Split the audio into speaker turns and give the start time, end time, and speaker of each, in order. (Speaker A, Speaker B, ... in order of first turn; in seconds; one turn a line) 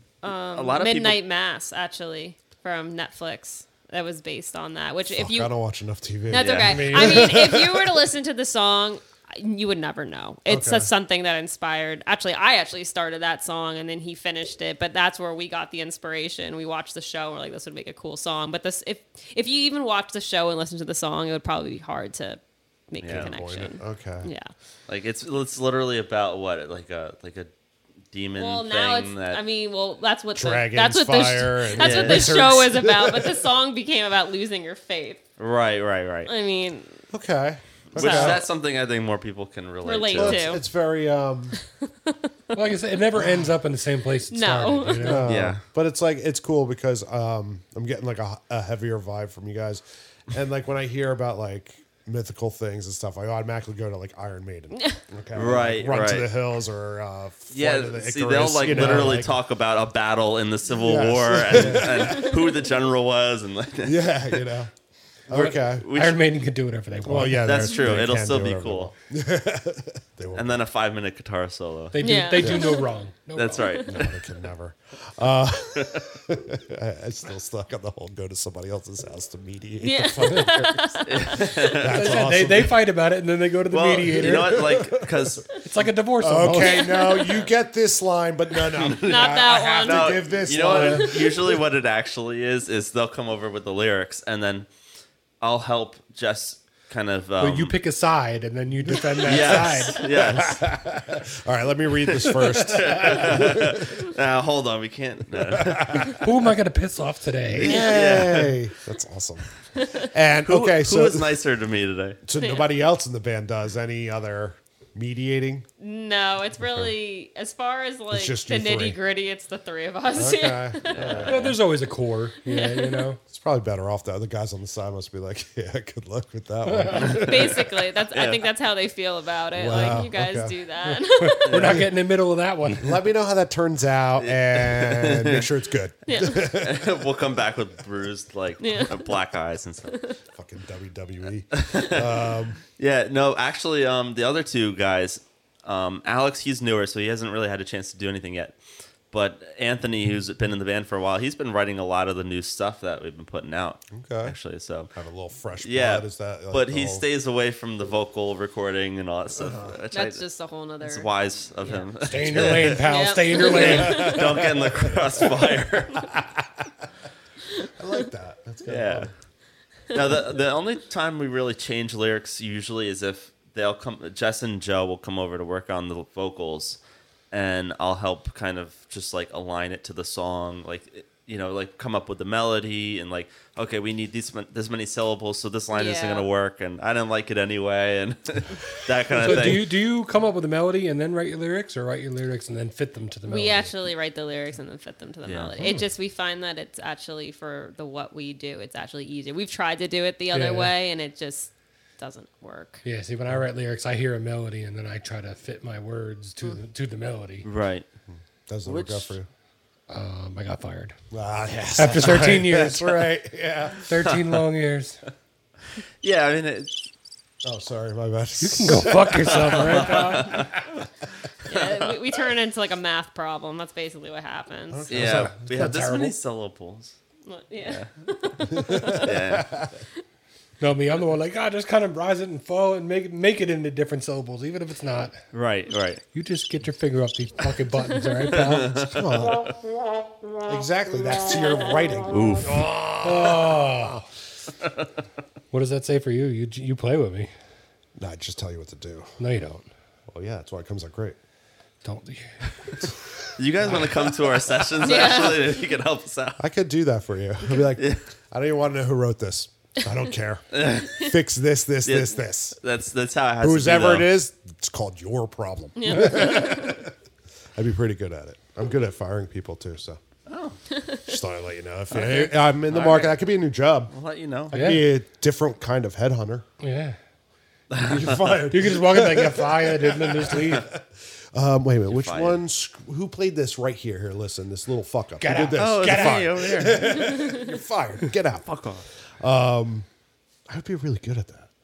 Speaker A: 0.2-5.5
Speaker B: 0.5-1.2
Speaker C: 5.1-8.0
Speaker A: 6.3-24.5
Speaker B: 6.3-7.3
Speaker C: 10.5-10.9
Speaker B: 23.0-23.3
Speaker C: 23.1-24.3
Speaker B: 24.9-27.5
Speaker B: 28.1-29.4
Speaker A: 28.4-35.2
Speaker C: 30.4-33.4
Speaker B: 31.8-32.4
Speaker B: 35.4-36.3
Speaker A: 36.3-36.9
Speaker C: 37.1-38.4
Speaker B: 37.9-40.6
Speaker A: 38.0-38.4
Speaker A: 39.8-40.6
Speaker C: 40.2-41.6
Speaker A: 41.8-42.5
Speaker D: 42.5-45.4
Speaker C: 43.2-43.5
Speaker A: 44.3-45.3
Speaker C: 44.9-59.4
Speaker B: 45.2-45.6
Speaker B: 55.3-56.3
Speaker B: 57.5-64.4
Speaker C: 60.7-62.5
Speaker C: 63.8-64.7
Speaker C: 65.3-65.9
Speaker B: 65.3-66.2
Speaker D: 65.9-67.7
Speaker C: 67.0-70.6
Speaker B: 67.3-68.9
Speaker B: 70.3-72.0
Speaker D: 71.9-73.7
Speaker A: 72.0-72.9
Speaker C: 72.4-72.8
Speaker B: 73.3-74.2
Speaker A: 73.6-73.9
Speaker C: 73.9-82.8
Speaker B: 75.8-76.1
Speaker A: 79.8-81.7
Speaker B: 81.1-82.2
Speaker D: 81.9-84.6
Speaker B: 83.7-85.5
Speaker C: 84.1-85.4
Speaker D: 85.6-87.2
Speaker C: 86.2-91.4
Speaker A: 86.6-87.5
Speaker A: 89.0-91.5
Speaker B: 89.8-94.7
Speaker D: 90.7-90.9
Speaker B: 95.4-97.8
Speaker D: 97.4-100.1
Speaker C: 98.8-104.0
Speaker B: 99.2-100.6
Speaker B: 102.1-106.2
Speaker C: 105.4-106.2
Speaker D: 106.2-107.9
Speaker C: 107.5-109.5
Speaker B: 107.6-108.6
Speaker A: 109.8-110.1
Speaker C: 110.0-111.4
Speaker B: 110.5-112.2
Speaker C: 112.3-115.7
Speaker A: 112.4-112.7
Speaker A: 115.8-121.3
Speaker C: 116.6-116.9
Speaker C: 118.1-119.0
Speaker C: 120.2-121.5
Speaker B: 120.9-121.6
Speaker D: 121.3-123.2
Speaker A: 122.5-123.1
Speaker C: 123.3-127.7
Speaker D: 126.7-127.0
Speaker B: 127.0-127.5
Speaker A: 127.1-131.8
Speaker B: 128.1-128.4
Speaker C: 129.5-130.5
Speaker D: 131.2-133.0
Speaker B: 131.5-131.9
Speaker C: 132.8-136.9
Speaker B: 134.2-135.5
Speaker A: 136.1-136.5
Speaker B: 136.5-140.0
Speaker A: 138.6-139.2
Speaker A: 139.9-140.2
Speaker C: 140.3-142.6
Speaker B: 141.5-148.6
Speaker B: 149.1-154.9
Speaker C: 153.9-154.3
Speaker C: 154.9-157.0
Speaker B: 155.6-160.2
Speaker C: 159.4-159.8
Speaker A: 159.9-161.1
Speaker B: 160.8-166.2
Speaker A: 161.6-161.9
Speaker D: 162.0-164.2
Speaker A: 162.8-164.4
Speaker C: 163.9-165.3
Speaker C: 167.7-169.1
Speaker B: 168.7-169.1
Speaker B: 169.9-176.8
Speaker B: 177.3-189.7
Speaker A: 185.7-186.3
Speaker D: 189.1-193.7
Speaker A: 193.3-202.8
Speaker B: 195.2-195.5
Speaker D: 200.3-200.7
Speaker D: 202.8-207.5
Speaker B: 207.4-207.9
Speaker C: 208.5-209.3
Speaker B: 208.7-209.1
Speaker D: 209.9-210.9
Speaker C: 211.1-213.8
Speaker D: 211.8-213.0
Speaker D: 213.9-215.0
Speaker B: 214.0-214.4
Speaker B: 216.0-216.9
Speaker C: 217.4-220.7
Speaker D: 218.4-220.5
Speaker B: 219.0-220.5
Speaker A: 221.5-225.0
Speaker B: 221.5-221.9
Speaker C: 224.7-225.7
Speaker B: 224.9-226.9
Speaker D: 225.0-226.1
Speaker A: 227.3-229.1
Speaker C: 228.5-229.8
Speaker B: 228.9-229.5
Speaker D: 230.6-235.2
Speaker B: 235.3-236.0
Speaker D: 236.1-238.8
Speaker B: 238.3-239.5
Speaker C: 238.8-239.5
Speaker C: 240.5-242.2
Speaker B: 242.1-242.9
Speaker D: 242.5-244.1
Speaker D: 245.5-247.3
Speaker C: 248.0-249.1
Speaker D: 249.2-249.7
Speaker C: 250.1-251.2
Speaker D: 251.8-252.3
Speaker B: 253.4-256.4
Speaker A: 254.8-255.6
Speaker C: 256.4-262.6
Speaker B: 257.8-258.0
Speaker B: 260.5-261.1
Speaker B: 261.9-264.1
Speaker C: 263.4-266.9
Speaker A: 265.8-266.8
Speaker C: 267.6-270.0
Speaker B: 270.3-270.6
Speaker A: 270.7-271.0
Speaker C: 271.0-273.9
Speaker B: 271.9-273.2
Speaker B: 273.9-274.8
Speaker C: 274.5-276.5
Speaker D: 274.5-274.8
Speaker D: 276.6-277.0
Speaker B: 277.7-278.2
Speaker C: 277.8-288.5
Speaker D: 278.5-280.7
Speaker B: 281.9-282.4
Speaker D: 285.2-286.9
Speaker B: 285.5-287.2
Speaker B: 288.4-288.9
Speaker C: 289.2-289.9
Speaker C: 290.5-291.5